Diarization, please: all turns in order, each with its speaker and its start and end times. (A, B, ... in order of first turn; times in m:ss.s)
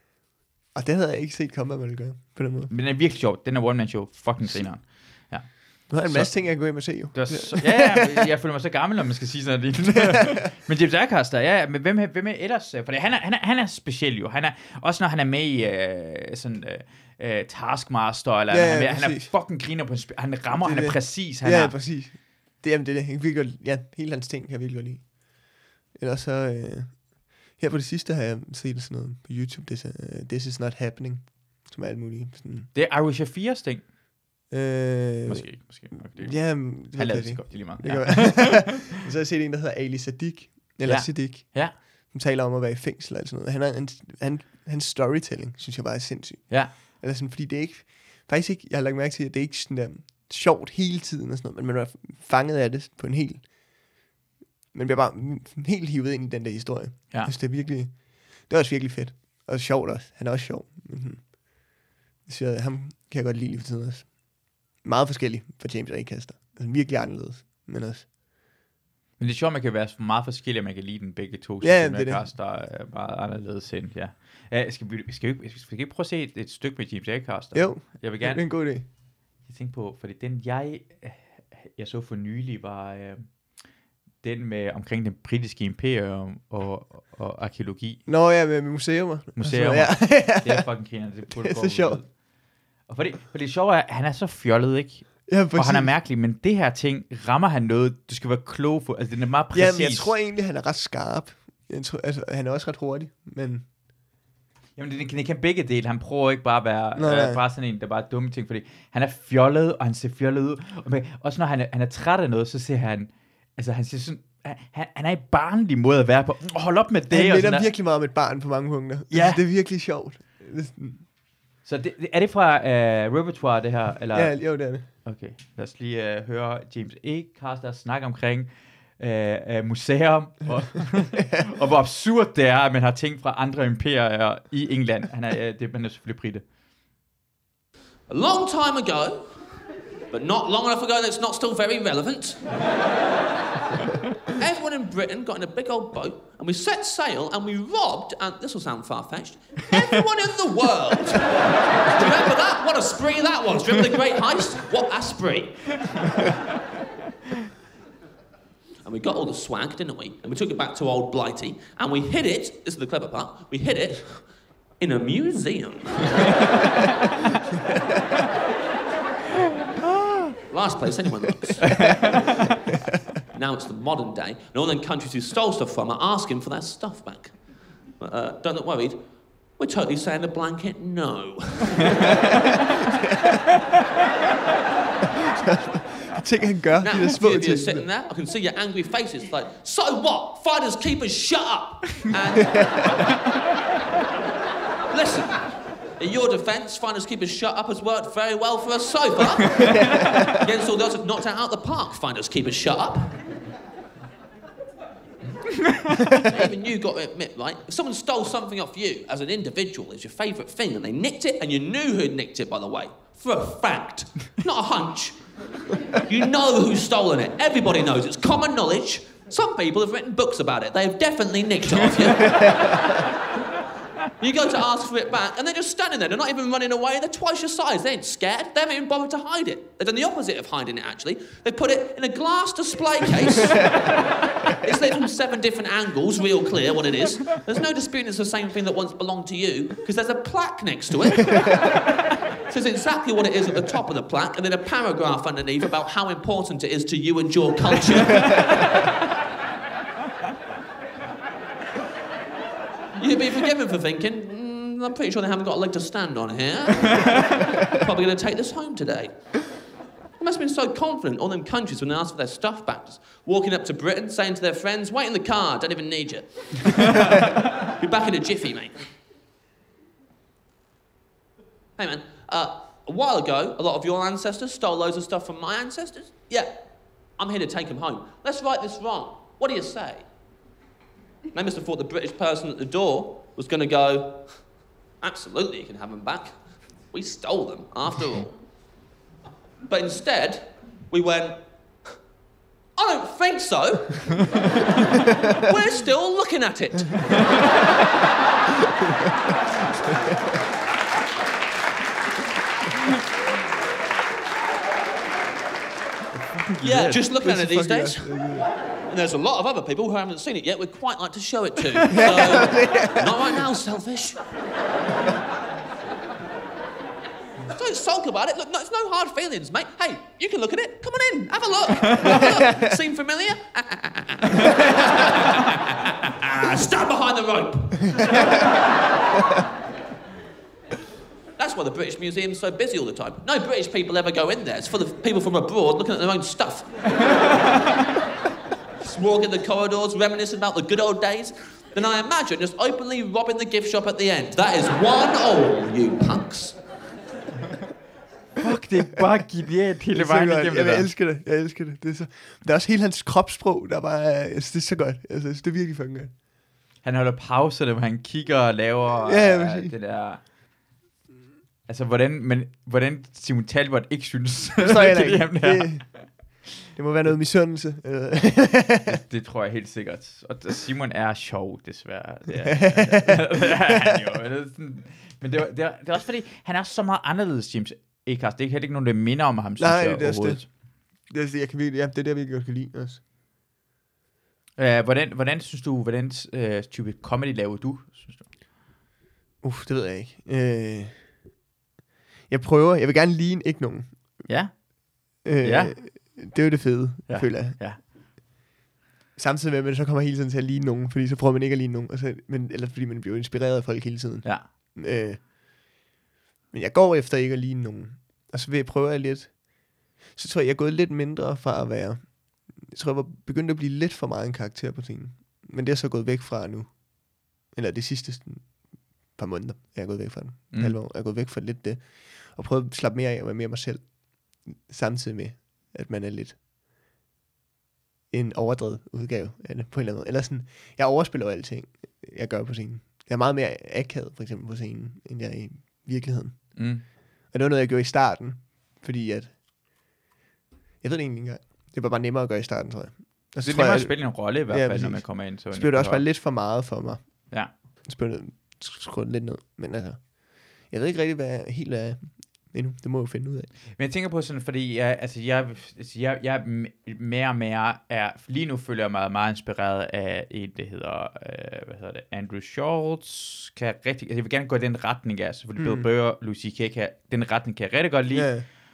0:00.7-0:02.7 A
0:02.7-0:21.8 B
0:05.9-0:08.3 A
0:09.9-0:10.4 A
0:18.5-0:19.3 A
0:20.5-0:32.7 A
0:32.7-0:33.8 B
0:34.5-0:35.5 A
0:35.3-0:38.8 B
0:36.0-0:53.7 A
0:40.8-0:41.7 B
0:46.5-0:46.7 B
0:54.7-1:01.3 A
1:02.2-1:04.2 A
1:04.8-1:08.1 A
1:09.2-1:18.4 B
1:11.6-1:12.2 A
1:17.5-1:18.8 A
1:19.4-1:23.3 B
1:24.2-1:28.0 B
1:28.1-1:30.7 A
1:29.4-1:32.1 B
1:31.3-1:32.0 A
1:32.9-1:40.1 B
1:35.3-1:35.9 A
1:39.5-1:43.7 A
1:44.8-1:57.7 B
1:47.0-1:47.4 A
1:57.1-2:01.0 A
1:59.1-1:59.4 B
2:01.6-2:16.4 B
2:04.1-2:04.9 A
2:18.1-2:19.2 C
2:20.1-2:22.4 C
2:24.4-2:35.8 C
2:38.8-2:44.2 C
2:44.8-2:46.6 C
2:50.5-2:51.9 C
2:51.6-2:52.1 B
2:51.7-2:52.1 A
2:53.3-2:57.3 C
2:58.0-2:59.0 C
2:59.6-3:02.3 C
3:02.0-3:03.4 A
3:05.2-3:07.8 A
3:06.8-3:13.0 C
3:12.3-3:12.9 A
3:14.9-3:15.4 C
3:16.0-3:19.7 C
3:19.6-3:20.4 A
3:20.4-3:23.2 C
3:26.2-3:35.2 C
3:36.0-3:42.8 C
3:42.2-3:42.7 A
3:44.2-3:54.0 C
3:54.5-4:01.6 C
4:02.5-4:08.5 C
4:13.0-4:19.1 C
4:20.2-4:28.8 C
4:31.8-4:36.5 C
4:37.2-4:40.0 C
4:41.3-4:44.2 C
4:45.0-4:46.3 C
4:46.9-4:48.3 C
4:49.7-4:51.4 C
4:52.8-4:57.2 C
4:58.8-5:00.2 A
5:06.1-5:07.0 B
5:06.6-5:08.1 C
5:07.1-5:08.5 A
5:08.9-5:14.2 C
5:11.9-5:13.4 A
5:17.5-5:28.4 C
5:22.0-5:22.7 A
5:31.4-5:37.0 C
5:38.8-5:46.6 C
5:48.4-5:50.9 B
5:49.9-5:56.1 A
5:56.8-6:00.2 B
5:59.0-5:59.7 A
6:01.7-6:05.9 B
6:04.6-6:05.8 A
6:06.7-6:09.0 A
6:08.9-6:20.4 B
6:12.4-6:14.0 A
6:19.6-6:20.4 A
6:21.1-6:23.0 A
6:24.6-6:28.2 B
6:29.4-6:31.0 A
6:32.3-6:34.2 A
6:34.3-6:34.5 B
6:35.2-6:35.8 B
6:35.2-6:37.6 A
6:37.1-6:37.8 B
6:39.2-6:45.2 A
6:46.5-6:49.4 A
6:50.1-6:58.6 A
6:59.1-7:06.4 A
7:00.5-7:00.8 B
7:08.1-7:19.4 A
7:16.6-7:16.8 B
7:20.8-7:27.0 A
7:23.4-7:26.0 B
7:27.8-7:33.5 A
7:33.8-7:48.3 B
7:45.6-7:45.8 A
7:48.1-7:48.4 A